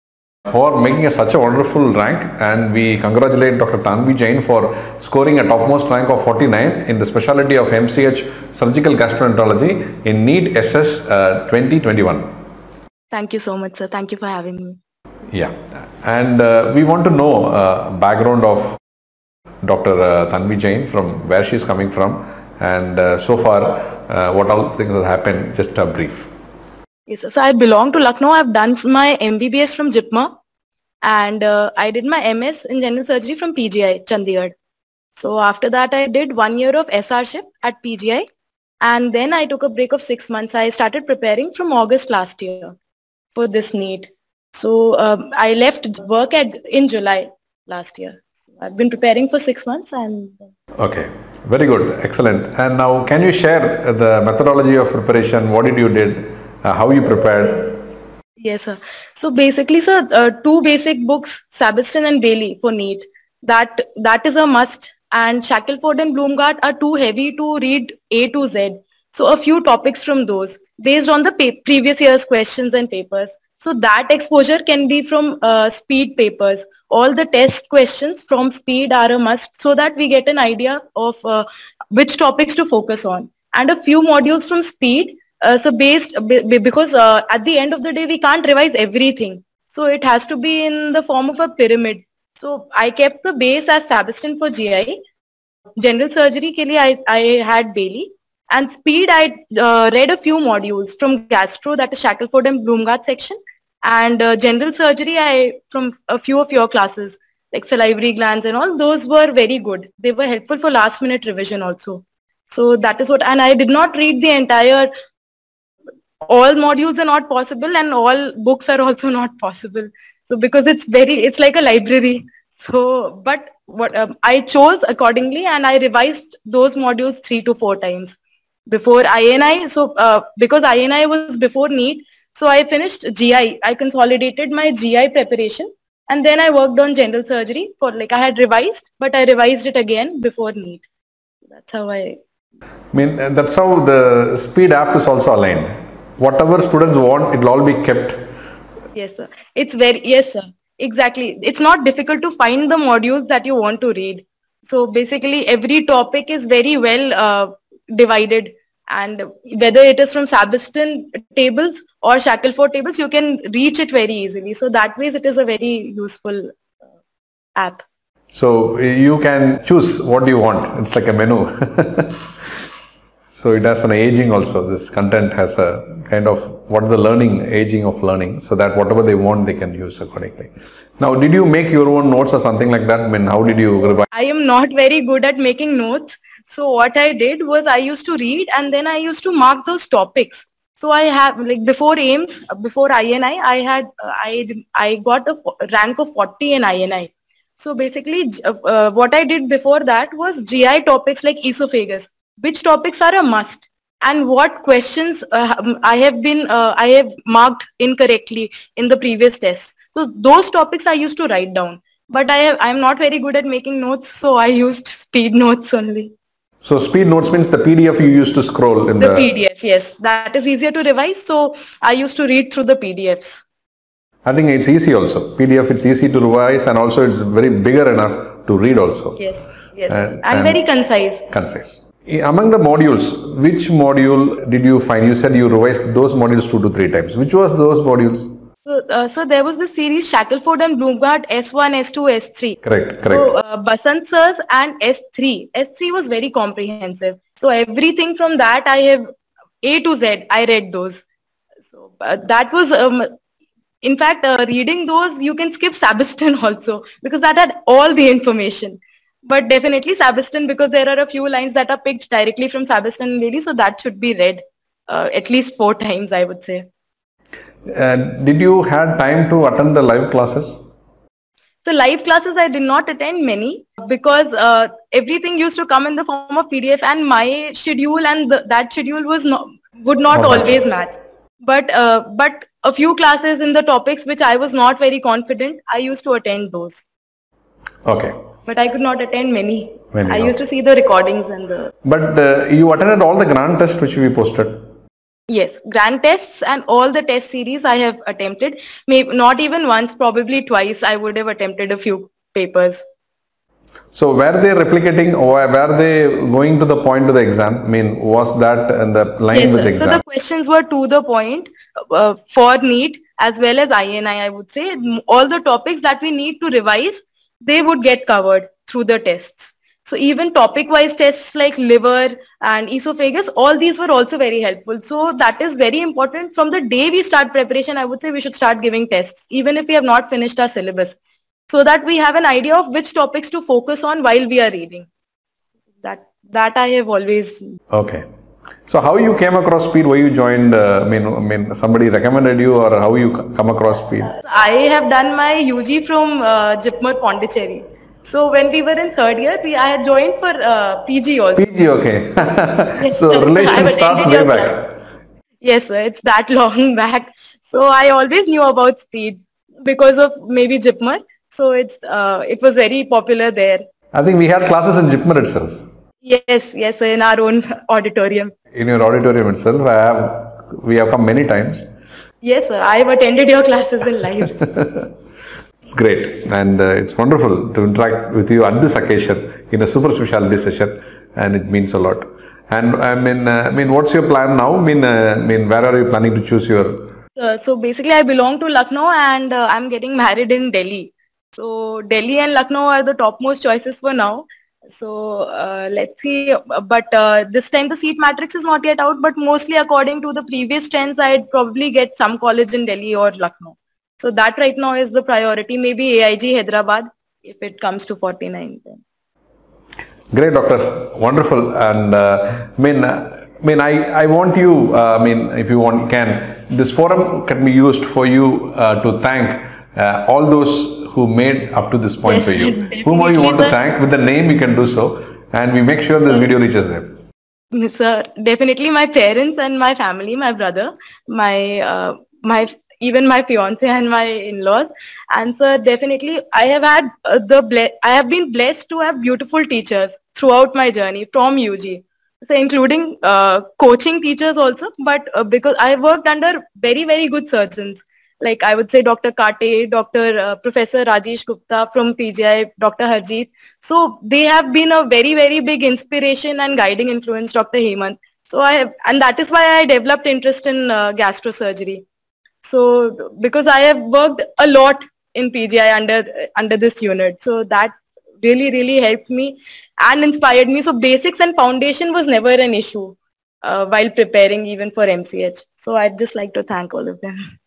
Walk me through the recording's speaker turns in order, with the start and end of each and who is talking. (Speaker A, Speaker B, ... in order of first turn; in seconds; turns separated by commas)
Speaker A: 0.5-12.3, Speaker B: 13.1-14.8, Speaker A: 15.3-18.8, Speaker A: 19.6-26.3, Speaker B: 27.1-30.3, Speaker B: 31.0-34.5, Speaker B: 35.2-38.2, Speaker B: 38.8-42.8, Speaker B: 43.4-50.5, Speaker A: 50.8-57.7, Speaker B: 58.4-95.0, Speaker B: 95.8-114.9, Speaker B: 116.2-128.2, Speaker B: 128.7-140.8, Speaker B: 141.5-142.2, Speaker A: 142.9-148.2, Speaker B: 148.9-166.5, Speaker B: 167.6-167.8, Speaker A: 168.3-172.2, Speaker A: 173.3-184.1, Speaker B: 184.1-216.1, Speaker A: 216.6-219.3, Speaker B: 219.0-223.4, Speaker A: 224.2-229.2, Speaker B: 229.2-231.2, Speaker A: 229.9-230.6, Speaker A: 231.3-238.3, Speaker B: 238.7-249.1, Speaker A: 242.6-243.3, Speaker B: 249.6-251.0, Speaker B: 251.7-253.1, Speaker B: 253.8-266.6, Speaker A: 267.7-270.6, Speaker B: 271.6-286.9, Speaker A: 280.1-280.6, Speaker A: 287.9-288.2, Speaker B: 288.5-291.7, Speaker A: 289.9-290.3, Speaker A: 291.8-294.6, Speaker B: 295.3-302.8, Speaker A: 303.9-310.0, Speaker B: 309.3-334.9, Speaker B: 335.8-337.5, Speaker A: 337.7-338.1, Speaker A: 338.7-344.1, Speaker B: 344.2-351.5, Speaker A: 351.4-354.7, Speaker B: 352.8-354.6, Speaker B: 355.4-363.6, Speaker A: 363.9-365.6, Speaker B: 366.0-368.3, Speaker A: 368.6-371.7, Speaker B: 372.2-374.4, Speaker A: 375.6-386.9, Speaker B: 387.2-408.8, Speaker A: 410.1-427.0, Speaker B: 422.1-423.6, Speaker B: 427.5-461.8, Speaker B: 462.4-477.2